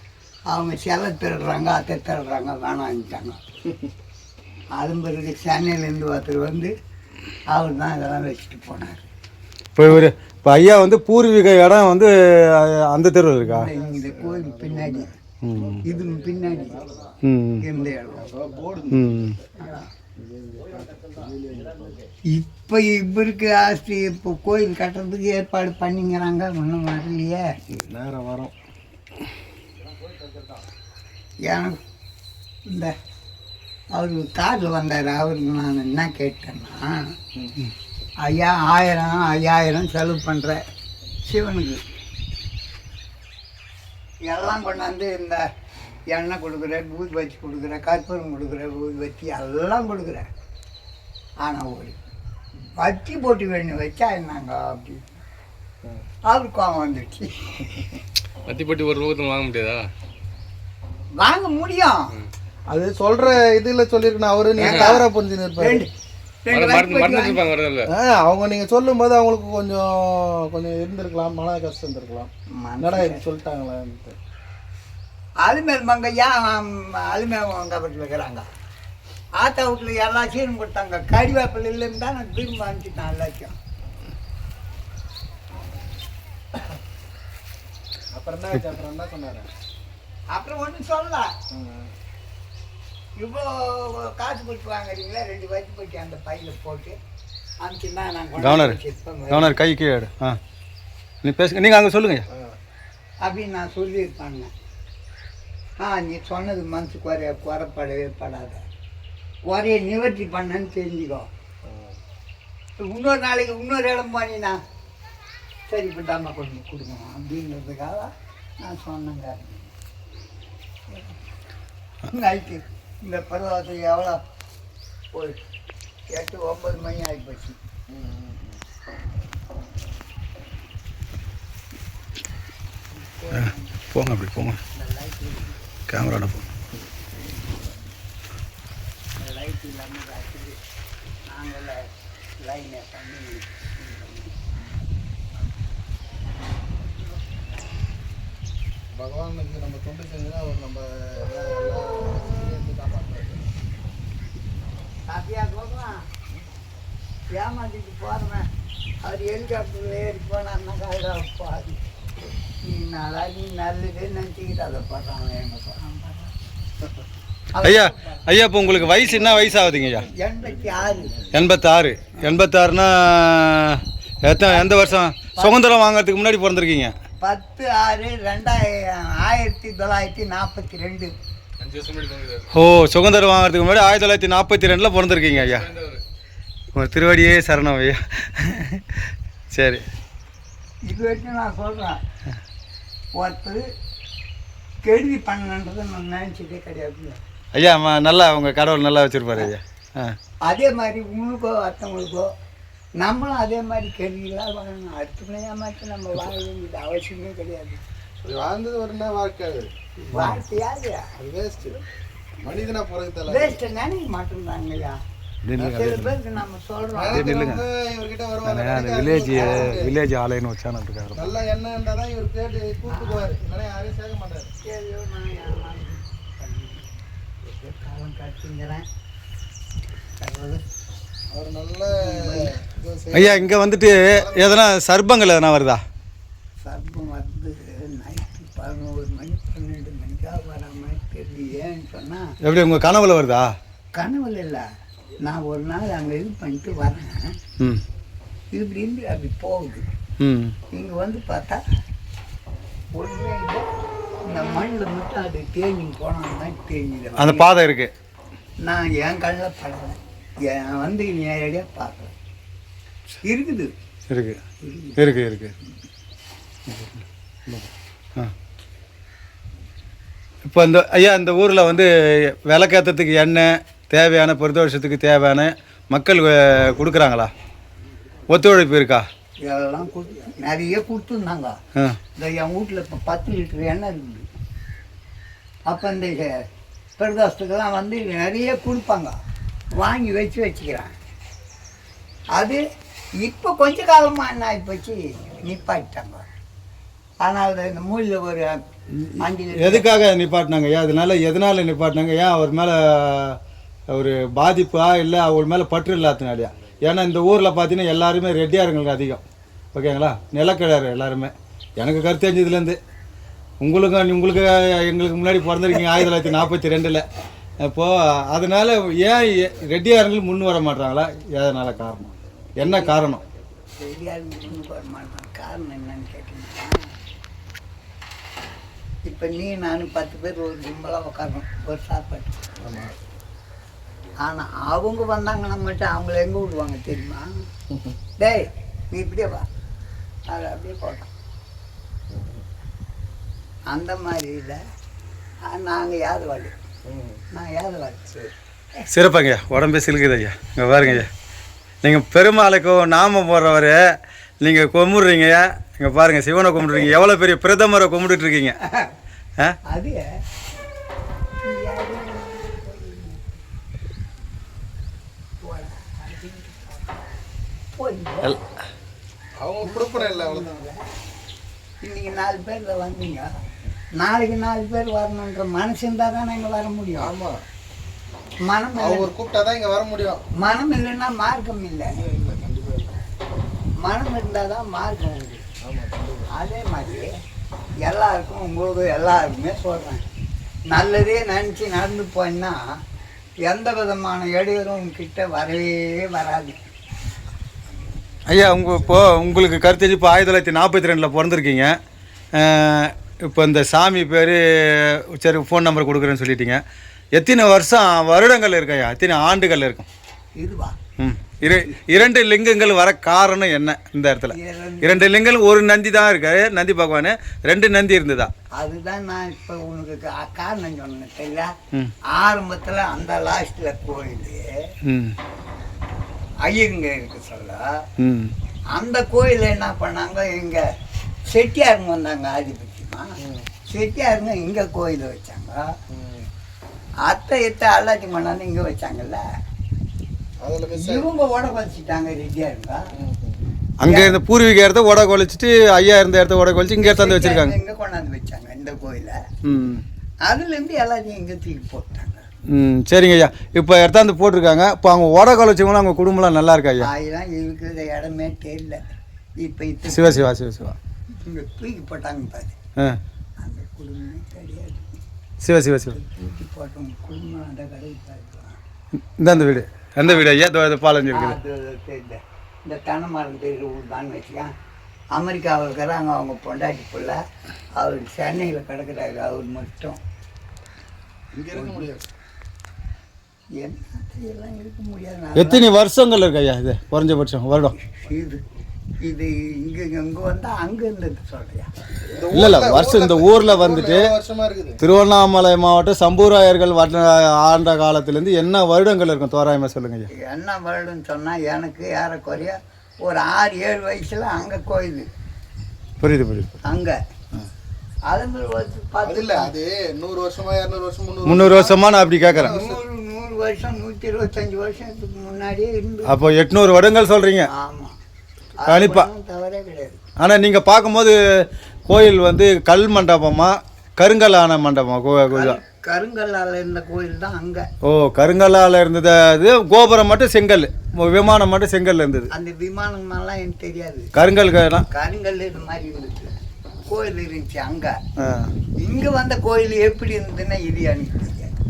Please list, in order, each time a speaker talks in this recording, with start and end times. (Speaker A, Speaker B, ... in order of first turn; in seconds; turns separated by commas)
Speaker A: 0.5-3.4, Speaker A: 4.8-6.7, Speaker A: 7.5-9.1, Speaker B: 9.8-13.7, Speaker A: 13.4-15.1, Speaker C: 13.7-16.9, Speaker B: 15.4-15.8, Speaker A: 15.8-17.0, Speaker B: 17.2-17.7, Speaker A: 17.6-18.4, Speaker C: 18.1-19.5, Speaker B: 18.9-19.4, Speaker A: 19.6-19.9, Speaker C: 20.2-22.1, Speaker A: 22.3-27.6, Speaker C: 27.7-28.5, Speaker A: 31.4-31.8, Speaker A: 32.7-33.0, Speaker A: 33.9-37.2, Speaker A: 38.2-40.6, Speaker A: 41.2-41.8, Speaker A: 44.3-45.4, Speaker A: 46.1-50.3, Speaker A: 51.4-52.0, Speaker A: 52.8-55.2, Speaker A: 56.3-57.9, Speaker D: 58.5-59.9, Speaker A: 61.2-62.1, Speaker C: 62.7-65.8, Speaker A: 64.6-65.9, Speaker D: 64.6-64.9, Speaker A: 66.5-67.5, Speaker D: 66.5-67.9, Speaker C: 67.9-74.2, Speaker A: 72.6-73.3, Speaker A: 75.4-78.5, Speaker A: 79.4-83.6, Speaker C: 88.1-89.5, Speaker A: 90.3-91.3, Speaker C: 91.5-91.9, Speaker A: 93.2-97.0, Speaker A: 97.6-99.5, Speaker B: 98.4-98.8, Speaker B: 99.3-100.4, Speaker B: 101.2-102.3, Speaker C: 102.3-102.6, Speaker A: 103.2-104.5, Speaker A: 105.8-108.6, Speaker A: 109.5-111.3, Speaker C: 111.6-112.0, Speaker A: 112.8-114.6, Speaker A: 115.7-119.7, Speaker A: 120.9-121.2, Speaker A: 122.1-124.2, Speaker A: 125.1-125.4, Speaker A: 126.1-127.6, Speaker C: 127.9-128.6, Speaker A: 132.9-133.8, Speaker B: 133.3-134.6, Speaker A: 134.7-135.6, Speaker B: 135.9-136.4, Speaker A: 139.2-140.6, Speaker A: 141.3-144.3, Speaker C: 148.9-153.4, Speaker A: 155.1-156.0, Speaker A: 157.3-158.5, Speaker A: 159.0-161.8, Speaker A: 162.6-166.3, Speaker A: 167.5-168.2, Speaker B: 167.6-170.1, Speaker A: 169.9-171.2, Speaker B: 171.3-176.9, Speaker A: 174.5-175.6, Speaker A: 177.2-181.1, Speaker D: 181.6-182.5, Speaker B: 182.5-185.7, Speaker D: 185.3-186.0, Speaker B: 186.7-189.9, Speaker A: 190.9-192.0, Speaker A: 193.2-193.6, Speaker A: 194.8-197.2, Speaker B: 197.5-200.2, Speaker A: 200.4-202.3, Speaker A: 203.0-207.8, Speaker C: 208.2-209.7, Speaker A: 210.0-211.1, Speaker B: 210.1-210.4, Speaker C: 211.2-211.8, Speaker C: 212.4-213.6, Speaker A: 213.3-215.0, Speaker B: 215.4-216.2, Speaker A: 215.6-217.4, Speaker C: 216.9-220.0, Speaker B: 217.1-217.7, Speaker B: 218.4-221.3, Speaker A: 219.3-219.8, Speaker C: 221.2-224.5, Speaker A: 222.9-223.3, Speaker A: 224.6-228.8, Speaker A: 230.2-230.6, Speaker C: 231.3-233.5, Speaker A: 232.0-232.5, Speaker B: 233.1-235.8, Speaker C: 234.1-234.6, Speaker A: 236.6-242.3, Speaker B: 242.4-243.5, Speaker A: 243.9-244.6, Speaker A: 245.2-247.3, Speaker A: 248.5-249.8, Speaker B: 250.2-250.6, Speaker A: 250.7-251.6, Speaker A: 252.9-253.6, Speaker A: 254.3-257.5, Speaker B: 257.2-257.9, Speaker A: 258.6-262.1, Speaker A: 263.2-263.7, Speaker B: 264.1-264.4, Speaker A: 264.6-265.0, Speaker B: 265.0-265.5, Speaker B: 266.7-267.0, Speaker B: 267.5-268.3, Speaker B: 270.4-277.3, Speaker B: 278.3-279.1, Speaker A: 279.4-281.6, Speaker A: 282.2-284.3, Speaker A: 285.7-286.4, Speaker A: 287.0-289.1, Speaker A: 289.8-290.9, Speaker A: 292.3-292.6, Speaker A: 293.2-296.2, Speaker A: 297.2-298.6, Speaker B: 298.9-303.4, Speaker A: 299.2-299.9, Speaker B: 303.9-309.2, Speaker B: 309.7-312.8, Speaker B: 313.6-317.0, Speaker B: 317.6-323.2, Speaker A: 322.6-322.9, Speaker A: 323.8-326.8, Speaker A: 329.1-332.5, Speaker C: 332.6-333.0, Speaker A: 334.2-337.3, Speaker A: 338.2-339.5, Speaker A: 340.3-341.1, Speaker C: 342.1-342.4, Speaker A: 343.7-344.6, Speaker A: 345.5-346.5, Speaker C: 346.9-347.2, Speaker A: 347.3-348.1, Speaker B: 348.9-351.1, Speaker B: 351.8-353.8, Speaker B: 354.4-358.6, Speaker A: 358.6-358.9, Speaker A: 359.7-360.0, Speaker A: 361.4-363.2, Speaker A: 365.4-367.0, Speaker A: 367.7-368.4, Speaker C: 369.4-370.5, Speaker A: 369.6-370.8, Speaker A: 371.8-373.3, Speaker A: 374.0-377.1, Speaker C: 377.0-377.4, Speaker A: 378.5-379.1, Speaker C: 378.8-380.2, Speaker A: 380.4-381.9, Speaker C: 381.9-383.0, Speaker A: 383.8-385.4, Speaker C: 385.6-386.3, Speaker A: 386.3-387.1, Speaker A: 387.8-390.0, Speaker A: 390.7-392.6, Speaker A: 393.4-396.6, Speaker B: 398.3-401.7, Speaker B: 402.4-406.6, Speaker B: 407.1-409.9, Speaker A: 410.4-410.8, Speaker B: 411.0-418.3, Speaker A: 414.3-415.1, Speaker A: 418.6-421.5, Speaker A: 422.1-424.5, Speaker B: 424.9-425.2, Speaker A: 426.4-427.6, Speaker B: 428.0-428.3, Speaker A: 428.7-430.6, Speaker A: 431.3-435.7, Speaker C: 433.2-433.5, Speaker C: 435.9-436.3, Speaker A: 437.0-439.2, Speaker C: 440.4-441.1, Speaker A: 440.7-442.9, Speaker C: 442.9-443.4, Speaker B: 443.8-447.6, Speaker A: 443.9-444.2, Speaker A: 446.8-449.2, Speaker B: 449.4-449.8, Speaker A: 450.2-452.3, Speaker B: 452.5-456.9, Speaker A: 456.8-458.8, Speaker A: 459.4-460.3, Speaker B: 459.9-460.8, Speaker A: 461.2-462.6, Speaker A: 463.4-465.0, Speaker B: 465.4-466.0, Speaker A: 465.9-468.6, Speaker B: 469.2-471.4, Speaker A: 471.1-474.5, Speaker A: 475.1-477.2, Speaker A: 477.8-480.0, Speaker C: 481.3-482.1, Speaker A: 481.6-481.8, Speaker A: 483.6-485.7, Speaker B: 485.4-487.8, Speaker A: 487.8-488.4, Speaker A: 489.0-491.7, Speaker C: 492.1-494.8, Speaker B: 492.3-494.1, Speaker B: 494.8-500.1, Speaker A: 500.1-505.1, Speaker B: 506.0-506.6, Speaker A: 506.6-507.0, Speaker A: 508.1-509.5, Speaker C: 509.0-511.7, Speaker B: 511.3-512.5, Speaker A: 512.3-516.2, Speaker C: 512.4-512.8, Speaker B: 516.1-517.5, Speaker A: 517.5-518.0, Speaker A: 518.6-520.0, Speaker B: 518.7-519.1, Speaker B: 520.2-521.1, Speaker B: 521.9-525.6, Speaker A: 525.3-527.7, Speaker B: 527.8-532.3, Speaker A: 532.3-534.1, Speaker B: 534.1-534.9, Speaker A: 534.9-536.3, Speaker A: 536.9-538.0, Speaker B: 538.2-538.5, Speaker A: 538.8-541.5